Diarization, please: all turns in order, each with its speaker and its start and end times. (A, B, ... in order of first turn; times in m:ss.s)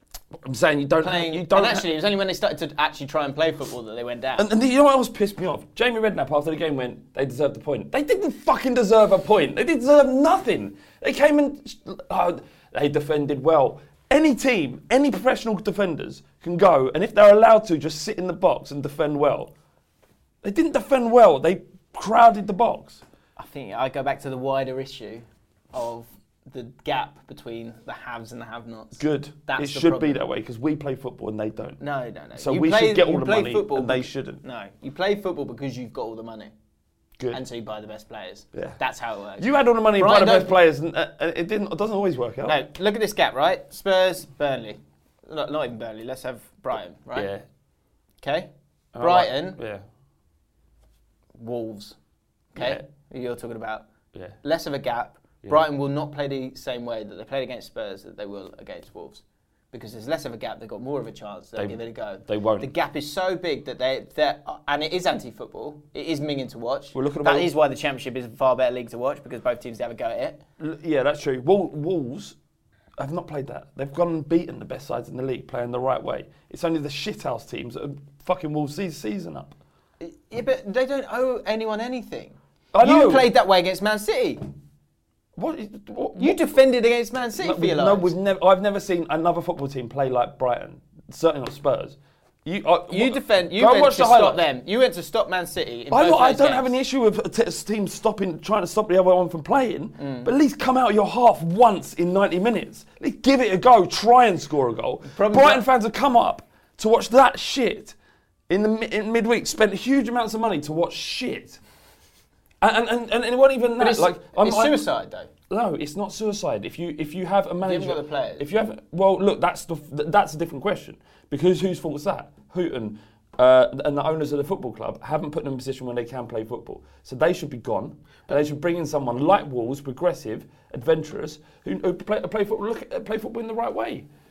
0:00.4-0:01.9 A
0:01.0-0:04.5 B
0:04.4-0:19.5 A
0:20.4-0:23.0 A
0:23.4-0:30.2 B
0:29.0-0:31.8 A
0:31.8-0:36.5 B
0:32.4-0:34.4 A
0:37.3-0:40.6 B
0:38.5-0:38.8 A
0:39.4-0:42.6 A
0:42.4-0:47.3 B
0:47.1-0:47.4 A
0:48.2-0:49.6 B
0:48.9-0:49.8 A
0:51.4-0:52.0 B
0:52.5-0:53.9 B
0:52.5-0:52.8 A
0:54.1-0:54.4 A
0:54.4-1:10.4 B
1:01.6-1:02.7 A
1:06.9-1:07.5 A
1:10.6-1:12.4 A
1:13.0-1:19.6 A
1:20.0-1:24.4 B
1:22.7-1:23.3 A
1:25.4-1:26.6 A
1:26.2-1:28.1 B
1:27.4-1:34.4 A
1:32.9-1:36.7 B
1:35.9-1:47.9 A
1:40.0-1:40.3 B
1:45.0-1:45.6 B
1:48.5-1:51.6 A
1:52.6-1:54.8 A
1:53.8-1:55.3 B
1:55.5-2:14.1 A
1:57.6-1:58.5 B